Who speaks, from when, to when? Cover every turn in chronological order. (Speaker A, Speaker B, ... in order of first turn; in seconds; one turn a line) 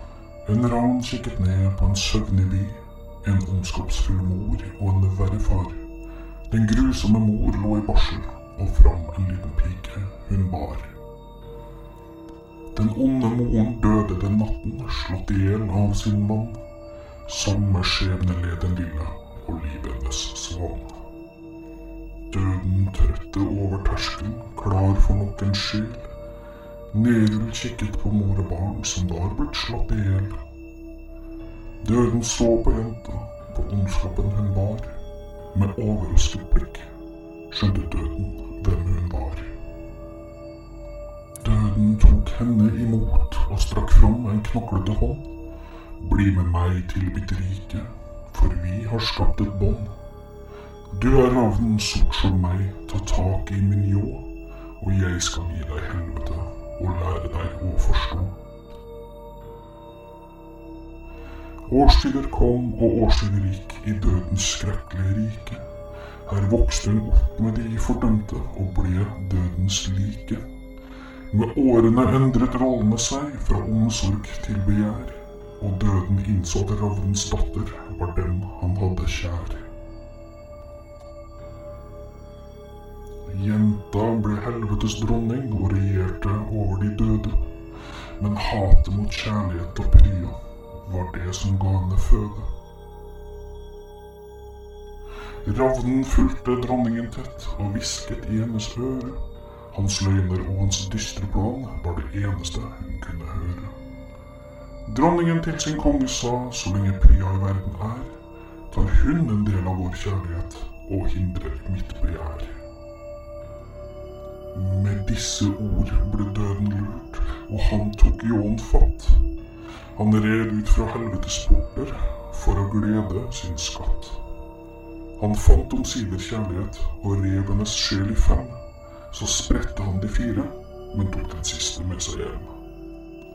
Speaker A: 0.5-5.8
Speaker A: 6.5-10.9
Speaker A: 12.7-16.6
Speaker A: 17.3-21.0
Speaker A: 22.3-26.0
Speaker A: 26.9-30.4
Speaker A: 31.8-34.9
Speaker A: 35.5-36.9
Speaker A: 37.5-39.5
Speaker A: 41.4-45.3
Speaker A: 46.0-50.0
Speaker A: 50.9-54.3
Speaker A: 54.8-58.4
Speaker A: 61.7-65.7
Speaker A: 66.3-70.5
Speaker A: 71.3-79.7
Speaker A: 83.3-87.5
Speaker A: 88.2-92.5
Speaker A: 95.5-99.2
Speaker A: 99.7-103.8
Speaker A: 104.9-108.1
Speaker A: 108.7-112.5
Speaker A: 114.5-119.2
Speaker A: 120.0-124.2
Speaker A: 125.2-128.6
Speaker A: 129.1-132.5